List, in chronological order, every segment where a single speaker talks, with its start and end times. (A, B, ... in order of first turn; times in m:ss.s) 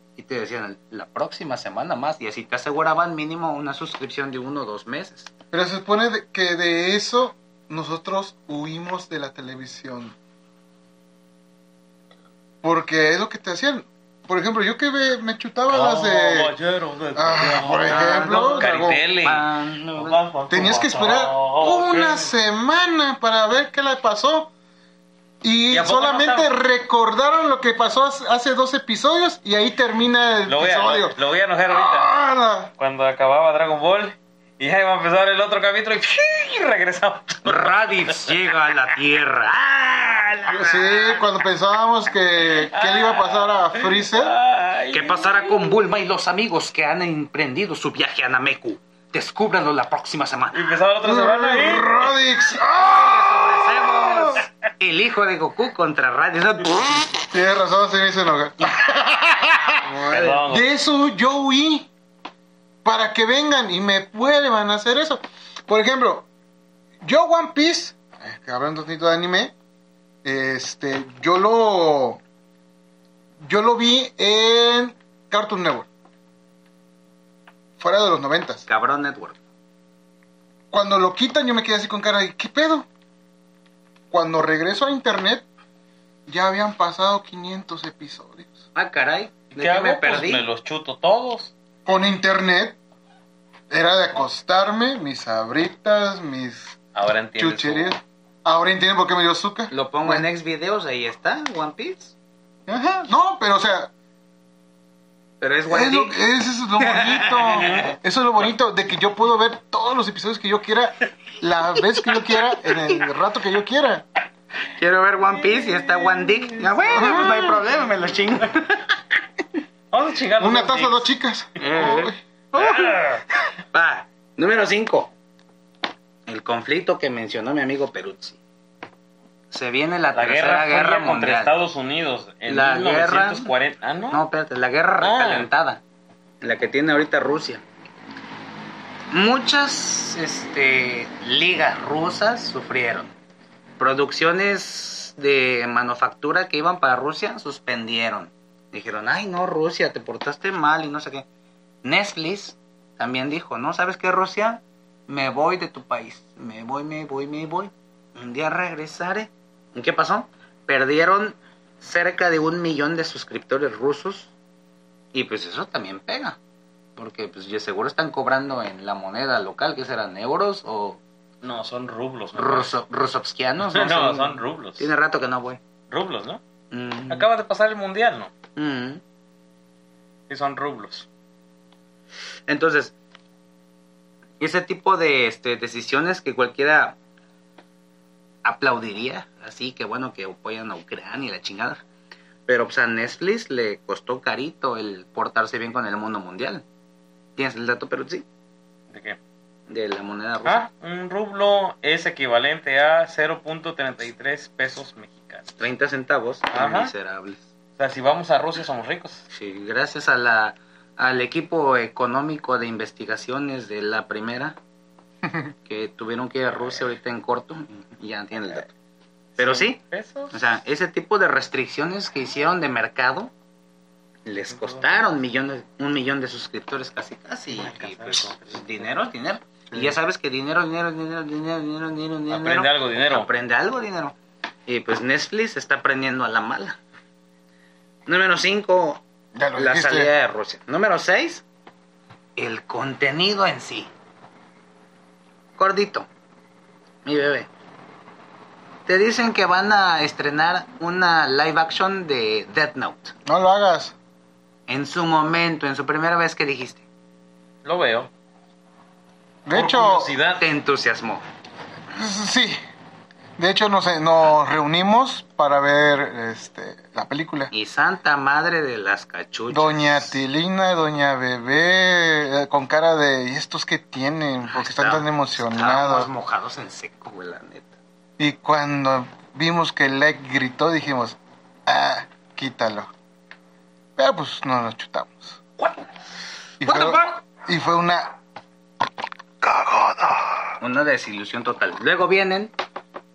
0:00.2-0:05.3 A
0:05.5-0:10.2 B
0:12.6-0:16.5 B
0:15.7-0:22.3 C
0:17.2-0:19.0 B
0:17.9-0:20.2 A
0:20.5-0:24.5 B
0:25.4-0:31.2 B
0:25.7-0:26.5 C
0:30.5-0:32.1 C
0:31.7-0:32.7 B
0:32.8-0:39.0 C
0:37.4-0:41.2 A
0:40.5-0:44.4 B
0:42.4-0:45.6 C
0:44.9-0:50.6 A
0:50.5-0:51.9 C
0:51.0-0:54.4 B
0:52.6-0:57.3 A
0:57.3-1:01.9 B
0:58.6-1:00.4 A
1:00.0-1:00.7 C
1:02.8-1:06.3 B
1:07.0-1:09.5 B
1:10.2-1:12.2 B
1:13.4-1:15.9 B
1:17.8-1:18.6 B
1:18.7-1:19.4 A
1:20.7-1:22.9 B
1:24.1-1:25.5 B
1:26.3-1:28.6 B
1:28.8-1:30.4 A
1:29.5-1:31.5 C
1:31.9-1:32.8 B
1:33.7-1:36.8 B
1:37.0-1:38.0 C
1:37.4-1:40.2 B
1:39.7-1:42.1 A
1:42.7-1:43.9 B
1:45.4-1:46.2 A
1:45.7-1:54.1 B
1:46.8-1:47.8 A
1:47.6-1:48.0 C
1:52.5-1:53.0 A
1:54.8-1:59.0 A
1:55.4-1:57.6 C
1:56.9-1:57.6 B
1:59.9-2:03.2 C
2:00.4-2:02.2 B
2:01.6-2:03.2 A
2:03.7-2:05.1 A
2:06.3-2:08.4 A
2:09.5-2:11.5 A
2:10.1-2:14.2 C
2:12.5-2:13.5 A
2:14.1-2:15.8 A
2:15.0-2:15.5 C
2:16.4-2:17.6 A
2:19.1-2:23.1 A
2:23.8-2:31.3 A
2:31.8-2:44.3 A
2:45.1-2:46.4 A
2:47.0-2:51.0 A
2:51.4-2:52.8 C
2:52.4-2:55.6 A
2:53.7-2:54.9 C
2:55.9-2:56.4 C
2:56.7-2:57.3 A
2:57.1-2:58.3 C
2:58.6-2:59.0 A
3:00.3-3:01.1 C
3:02.5-3:02.9 A
3:04.4-3:07.0 A
3:08.4-3:11.8 A
3:12.5-3:16.6 A
3:17.4-3:18.2 A
3:18.9-3:19.2 C
3:19.7-3:20.7 A
3:20.4-3:25.5 C
3:25.6-3:27.4 A
3:26.5-3:26.9 C
3:27.8-3:29.3 C
3:29.3-3:34.6 A
3:35.7-3:38.7 A
3:39.4-3:40.4 C
3:39.4-3:39.8 A
3:40.3-3:43.3 A
3:44.2-3:54.2 A
3:44.5-3:45.0 C
3:47.5-3:49.1 C
3:52.3-3:53.3 C
3:54.7-3:56.8 A
3:58.1-3:59.0 A
3:59.4-4:00.1 B
3:59.6-4:01.4 A
4:02.4-4:03.9 A
4:05.6-4:06.1 A
4:07.0-4:07.5 A
4:08.9-4:13.1 A
4:13.3-4:14.0 B
4:14.7-4:16.8 A
4:17.6-4:18.1 C
4:19.4-4:20.1 B
4:19.5-4:20.4 C
4:20.4-4:21.2 A
4:21.9-4:22.6 B
4:23.4-4:27.5 B
4:27.5-4:30.2 A
4:29.5-4:36.1 B
4:34.5-4:37.7 A
4:38.2-4:42.9 B
4:44.0-4:45.4 B
4:46.6-4:48.2 B
4:46.7-4:47.0 A
4:46.7-4:47.0 C
4:49.4-4:50.5 B
4:50.6-4:52.5 A